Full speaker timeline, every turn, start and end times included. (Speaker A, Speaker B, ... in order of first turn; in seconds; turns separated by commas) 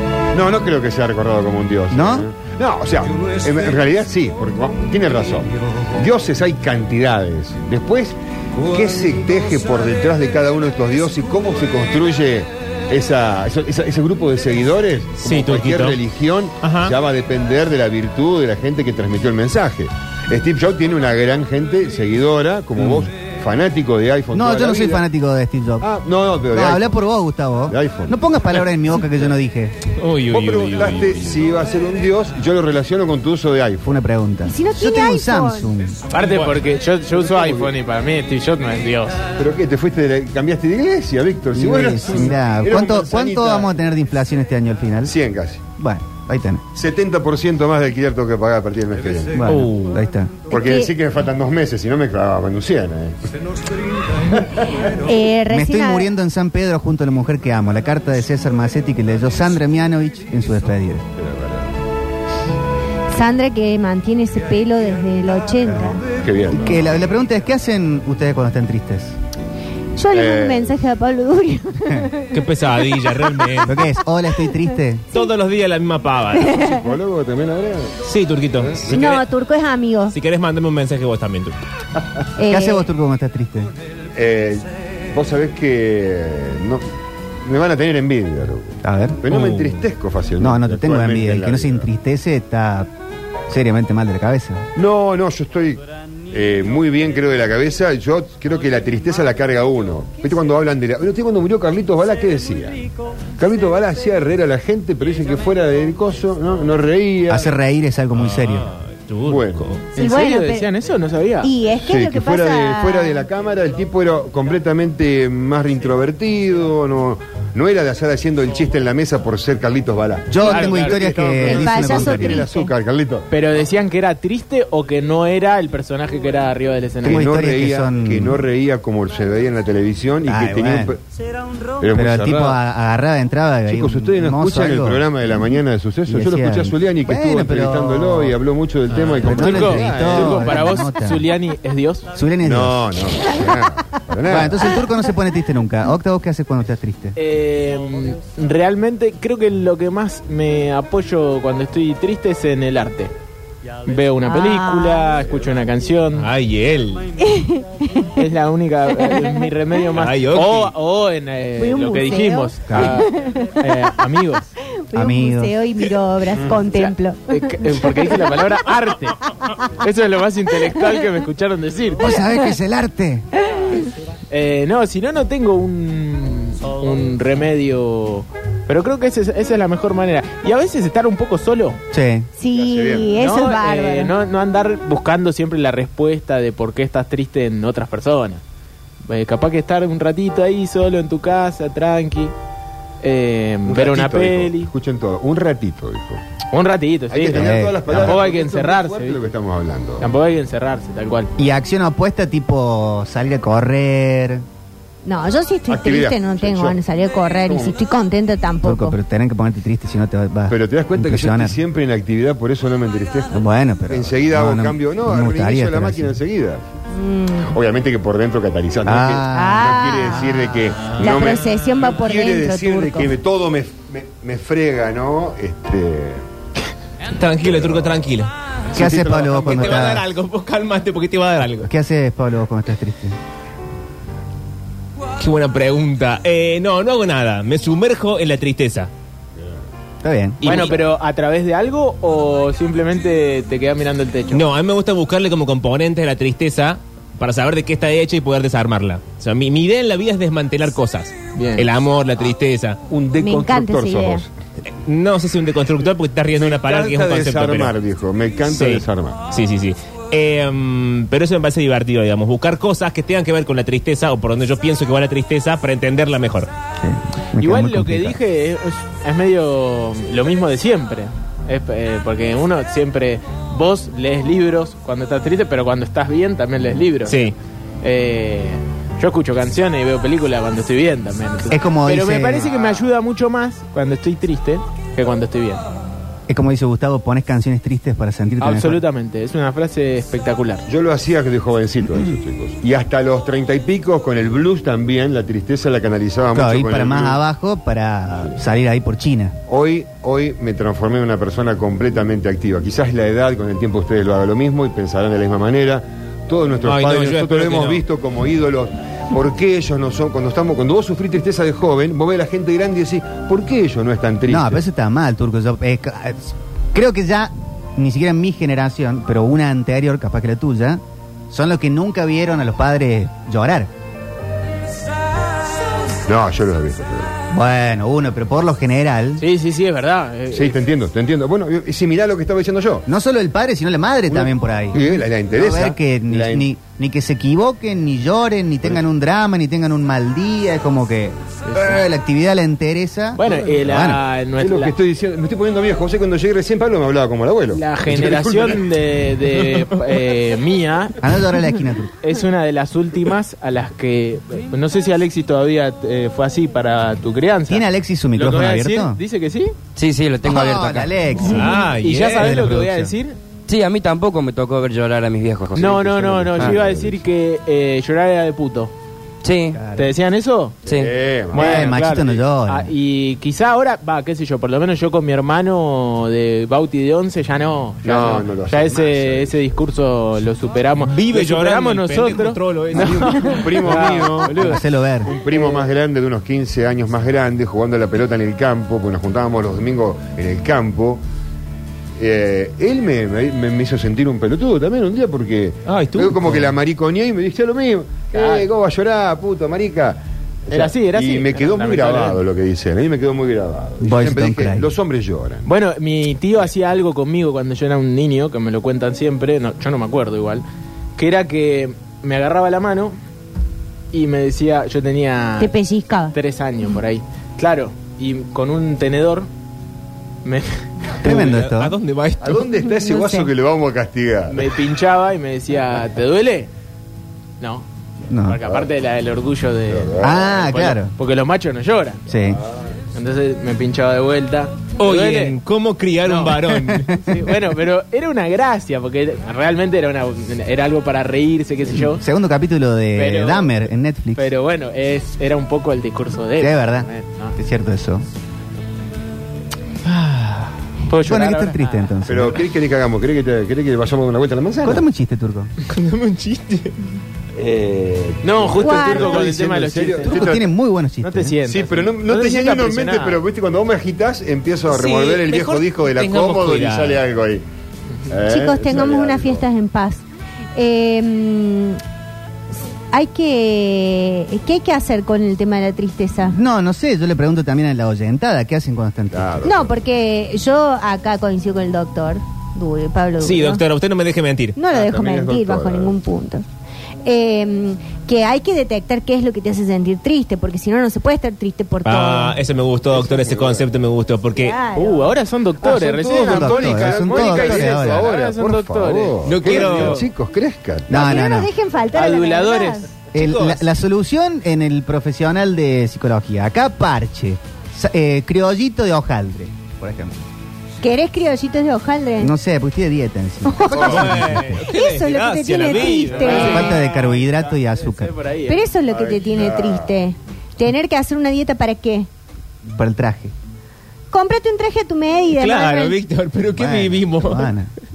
Speaker A: 0.3-25.0, Speaker B: 1.9-2.3, Speaker C: 15.2-16.0, Speaker C: 16.6-16.9, Speaker B: 22.8-23.1, Speaker B: 24.3-25.9, Speaker A: 25.8-27.0, Speaker B: 26.5-29.8, Speaker A: 27.7-28.2, Speaker C: 29.9-31.4, Speaker A: 30.3-33.9, Speaker B: 33.8-36.0, Speaker D: 34.4-35.7, Speaker E: 36.1-39.3, Speaker C: 36.2-36.6, Speaker A: 37.1-37.7, Speaker A: 39.4-43.7, Speaker B: 41.5-45.1, Speaker A: 45.0-45.6, Speaker B: 45.8-46.6, Speaker A: 46.7-49.4, Speaker B: 49.3-50.5, Speaker C: 49.5-50.0, Speaker D: 50.5-50.9, Speaker A: 50.5-53.3, Speaker A: 54.2-55.0, Speaker D: 54.9-56.1, Speaker B: 55.5-61.0, Speaker A: 61.1-61.7, Speaker D: 63.1-66.0, Speaker A: 66.2-67.0, Speaker B: 66.5-69.2, Speaker D: 70.0-72.4, Speaker A: 70.1-70.7, Speaker C: 72.3-73.8, Speaker B: 73.6-75.0, Speaker C: 75.1-76.6, Speaker D: 76.3-76.8, Speaker A: 76.6-77.9, Speaker C: 78.0-79.2, Speaker A: 78.6-79.1, Speaker D: 78.9-80.2, Speaker C: 80.1-81.5, Speaker D: 82.4-82.9, Speaker B: 82.5-83.7, Speaker A: 84.1-86.8, Speaker A: 87.4-91.9, Speaker B: 88.8-89.2, Speaker C: 89.3-89.8, Speaker B: 90.4-92.9, Speaker B: 93.5-94.7, Speaker A: 94.7-102.8, Speaker A: 103.4-107.5, Speaker B: 107.3-108.7, Speaker C: 108.2-109.8, Speaker A: 109.2-109.7, Speaker E: 109.9-111.5, Speaker D: 110.0-110.7, Speaker D: 111.4-113.2, Speaker A: 111.8-123.3, Speaker B: 120.3-122.5, Speaker E: 120.4-121.0, Speaker D: 121.4-122.7, Speaker E: 123.3-127.3, Speaker B: 127.0-128.4, Speaker A: 127.0-131.0, Speaker B: 130.2-130.9, Speaker A: 131.8-132.6, Speaker B: 131.9-135.4, Speaker A: 133.7-140.8, Speaker B: 136.1-138.3, Speaker C: 138.9-139.2, Speaker B: 139.2-141.2, Speaker E: 139.3-142.1, Speaker B: 142.1-142.8, Speaker A: 142.4-144.8, Speaker B: 144.2-147.2, Speaker E: 147.2-153.1, Speaker E: 153.8-156.3, Speaker D: 154.2-155.1, Speaker C: 156.2-157.1, Speaker D: 157.2-158.2, Speaker E: 158.2-164.5, Speaker D: 159.0-159.3, Speaker C: 159.9-160.7, Speaker D: 161.6-163.6, Speaker B: 162.7-163.0, Speaker D: 164.9-168.4, Speaker B: 164.9-165.5, Speaker E: 166.6-172.2, Speaker B: 172.0-173.3, Speaker E: 174.3-181.8, Speaker B: 181.9-182.3, Speaker D: 182.3-184.1, Speaker A: 182.5-183.1, Speaker E: 183.1-188.4, Speaker E: 189.0-192.3, Speaker E: 193.0-194.7, Speaker A: 193.7-196.2, Speaker E: 196.5-199.2, Speaker A: 197.1-200.1, Speaker B: 197.3-198.2, Speaker E: 200.0-201.3, Speaker B: 201.4-204.4, Speaker D: 205.0-208.9, Speaker A: 205.7-206.8, Speaker A: 207.4-207.7, Speaker B: 208.6-211.6, Speaker A: 210.5-213.3, Speaker B: 213.3-216.2, Speaker A: 213.9-216.8, Speaker D: 216.9-217.5, Speaker A: 217.4-226.2, Speaker B: 218.8-219.9, Speaker D: 219.3-220.4, Speaker D: 221.0-223.1, Speaker C: 227.1-228.3, Speaker A: 227.4-228.1, Speaker A: 228.7-230.0, Speaker B: 228.7-230.1, Speaker C: 229.3-231.7, Speaker B: 231.6-233.2, Speaker C: 235.2-238.9, Speaker B: 240.0-240.4, Speaker C: 240.4-240.8, Speaker E: 240.4-244.4, Speaker C: 244.3-252.8, Speaker E: 251.3-251.7, Speaker A: 252.9-254.3, Speaker D: 253.2-254.2, Speaker C: 254.8-257.7, Speaker A: 256.4-259.2, Speaker C: 258.5-266.5, Speaker B: 266.8-268.2, Speaker E: 267.4-277.2, Speaker C: 277.1-277.3, Speaker E: 277.8-285.6, Speaker B: 281.5-282.5, Speaker B: 286.3-288.8, Speaker E: 288.4-290.6, Speaker A: 290.7-297.2, Speaker B: 296.3-299.4, Speaker A: 299.5-314.6, Speaker C: 306.6-307.8, Speaker B: 314.2-323.7, Speaker A: 326.1-327.1, Speaker B: 327.3-329.2, Speaker E: 329.2-330.6, Speaker A: 330.3-332.8, Speaker B: 332.9-344.0, Speaker A: 334.1-336.5, Speaker E: 341.4-341.7, Speaker E: 343.2-344.7, Speaker A: 344.4-348.6, Speaker E: 347.5-351.0, Speaker B: 351.0-351.9, Speaker E: 352.0-359.6, Speaker B: 357.5-359.0, Speaker F: 359.8-361.0, Speaker B: 360.2-362.9, Speaker C: 361.2-362.4, Speaker E: 361.7-363.2, Speaker F: 363.5-366.8, Speaker E: 365.5-368.7, Speaker A: 366.4-366.9, Speaker F: 369.2-369.6, Speaker B: 369.5-369.9, Speaker E: 369.7-370.6, Speaker F: 370.6-370.9, Speaker A: 370.7-371.7, Speaker E: 371.3-384.6, Speaker B: 371.3-372.7, Speaker A: 377.8-379.4, Speaker C: 380.8-383.4, Speaker A: 382.7-391.0, Speaker B: 384.4-385.1, Speaker E: 385.3-385.6, Speaker A: 392.0-405.5, Speaker C: 395.7-396.5, Speaker E: 398.1-398.5, Speaker E: 400.5-402.2, Speaker B: 403.8-404.7, Speaker E: 405.4-410.4, Speaker E: 411.0-412.9, Speaker E: 413.9-415.5, Speaker D: 415.4-416.1, Speaker E: 416.1-419.3, Speaker E: 420.2-420.6, Speaker C: 421.0-422.4, Speaker B: 421.0-421.7, Speaker A: 422.2-424.6, Speaker D: 422.6-423.3, Speaker E: 424.3-426.5, Speaker E: 427.4-427.7, Speaker B: 428.1-428.4, Speaker E: 428.2-432.0, Speaker A: 429.7-430.2, Speaker B: 430.0-430.9, Speaker B: 432.1-432.4, Speaker E: 432.9-435.4, Speaker C: 434.8-436.9, Speaker E: 436.0-442.0, Speaker B: 436.7-437.2, Speaker B: 441.7-444.3, Speaker E: 442.9-443.6, Speaker E: 444.1-447.4, Speaker B: 446.4-448.1, Speaker C: 449.8-450.5, Speaker E: 450.9-451.9, Speaker B: 451.0-452.4, Speaker A: 452.1-454.8, Speaker B: 454.6-455.5, Speaker C: 455.6-456.7, Speaker A: 457.4-460.4, Speaker E: 458.2-460.4, Speaker D: 458.6-459.2, Speaker B: 460.0-461.4, Speaker E: 461.0-463.2, Speaker A: 461.4-467.4, Speaker C: 464.7-467.0, Speaker A: 468.1-469.4, Speaker D: 468.2-471.8, Speaker D: 472.9-476.4, Speaker B: 476.3-479.5, Speaker A: 479.1-479.8, Speaker D: 479.4-483.6, Speaker C: 483.2-484.6, Speaker D: 484.6-486.4, Speaker A: 484.7-485.9, Speaker D: 487.0-492.4, Speaker C: 491.8-494.6, Speaker A: 492.9-493.7, Speaker D: 494.4-495.1, Speaker E: 494.7-500.1, Speaker A: 495.6-501.2, Speaker B: 496.1-498.1, Speaker C: 499.2-500.0, Speaker B: 500.9-501.5, Speaker D: 500.9-503.0, Speaker E: 501.9-502.9, Speaker C: 503.1-503.6, Speaker B: 503.1-510.2, Speaker D: 510.8-512.3, Speaker B: 512.2-514.6, Speaker D: 513.4-516.8, Speaker C: 513.7-516.7, Speaker A: 513.8-514.1, Speaker E: 515.7-518.6, Speaker B: 516.3-518.1, Speaker D: 518.5-522.1, Speaker A: 518.9-519.9, Speaker B: 522.6-523.3, Speaker D: 524.1-526.0, Speaker C: 525.3-527.5, Speaker B: 526.5-527.7